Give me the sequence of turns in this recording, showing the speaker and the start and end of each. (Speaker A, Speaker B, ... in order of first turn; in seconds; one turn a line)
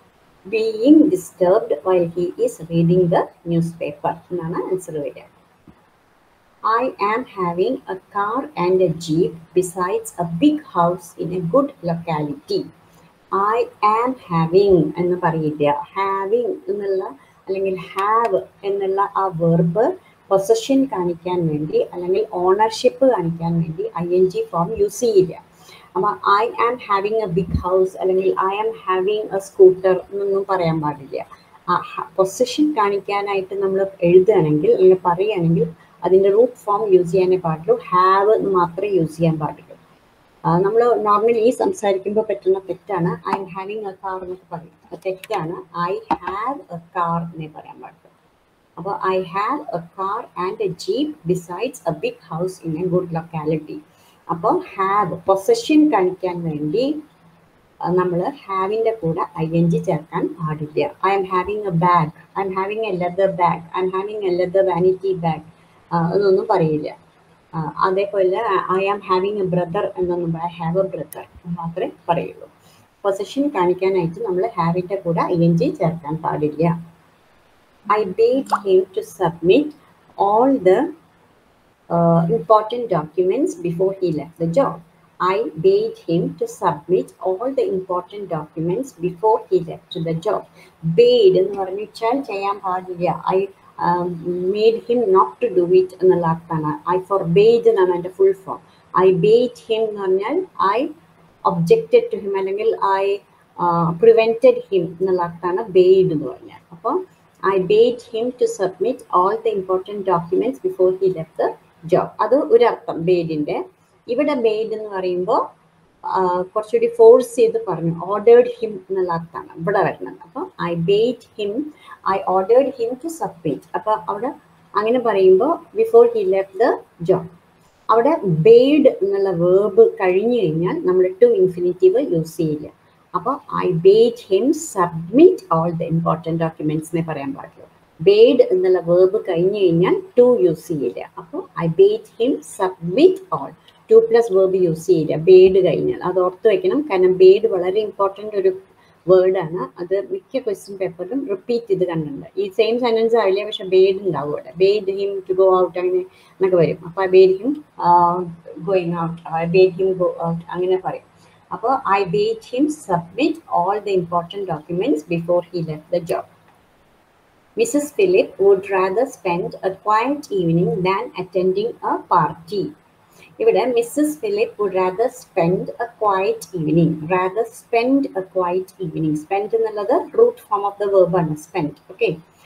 Speaker A: 0.5-5.3
Speaker A: 6.7-12.7
Speaker A: 13.3-25.4
Speaker A: 25.9-39.8
Speaker A: 40.5-48.1
Speaker A: 48.8-53.8
Speaker A: 54.3-56.9
Speaker A: 57.9-66.9
Speaker A: 67.6-72.5
Speaker A: 73.0-76.7
Speaker A: 77.9-80.9
Speaker A: 81.9-100.9
Speaker A: 101.5-115.4
Speaker A: 116.1-127.3
Speaker A: 127.9-148.6
Speaker A: 149.1-166.3
Speaker A: 167.6-172.7
Speaker A: 173.4-182.2